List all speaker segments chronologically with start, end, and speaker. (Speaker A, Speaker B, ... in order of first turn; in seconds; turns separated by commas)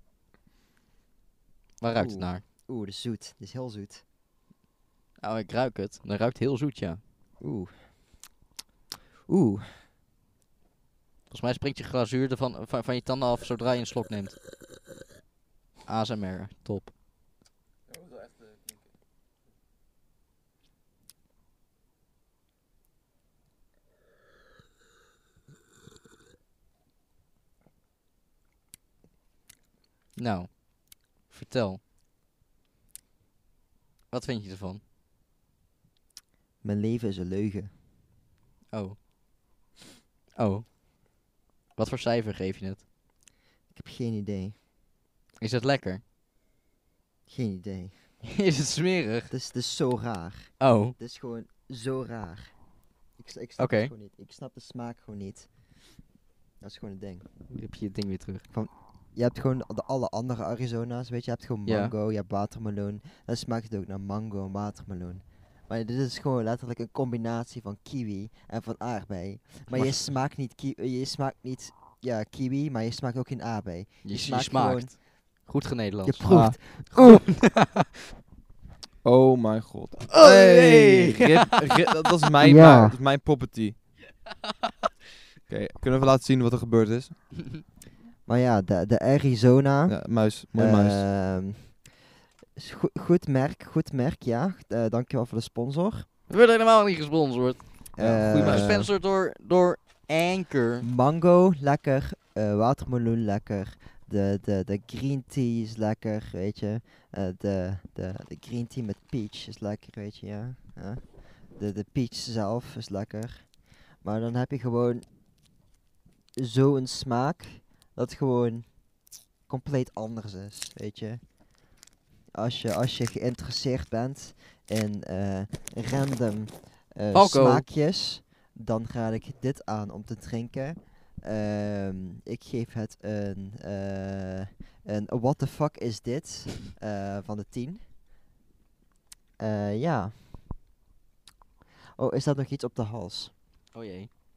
Speaker A: 1.8-2.4, Speaker B: 1.9-4.0, Speaker A: 5.2-7.0, Speaker B: 7.4-7.8, Speaker B: 9.3-9.8, Speaker A: 11.3-14.4, Speaker A: 15.8-16.9, Speaker C: 17.9-18.8, Speaker A: 30.1-31.8, Speaker A: 34.1-34.8, Speaker B: 36.6-37.7, Speaker A: 38.7-39.0, Speaker A: 40.3-40.7, Speaker A: 41.8-42.8, Speaker B: 43.7-44.5, Speaker A: 45.4-46.0, Speaker B: 47.3-48.2, Speaker A: 48.2-49.3, Speaker B: 49.3-52.5, Speaker A: 50.6-51.0, Speaker B: 53.1-55.8, Speaker A: 53.6-53.9, Speaker B: 56.6-57.3, Speaker A: 57.5-58.4, Speaker B: 58.5-75.0, Speaker A: 61.6-61.9, Speaker A: 74.0-77.8, Speaker B: 76.0-77.3, Speaker C: 76.3-76.5, Speaker C: 79.0-83.9, Speaker A: 80.1-81.7, Speaker B: 82.4-83.0, Speaker C: 85.5-87.4, Speaker B: 88.2-91.9, Speaker C: 89.9-91.0, Speaker B: 92.5-96.0, Speaker A: 96.3-100.8, Speaker B: 98.0-98.9, Speaker C: 98.0-98.9, Speaker B: 100.8-115.0, Speaker B: 116.4-121.2, Speaker B: 122.3-137.8, Speaker A: 127.1-127.7, Speaker B: 139.4-140.2, Speaker B: 141.9-143.3, Speaker A: 143.7-144.1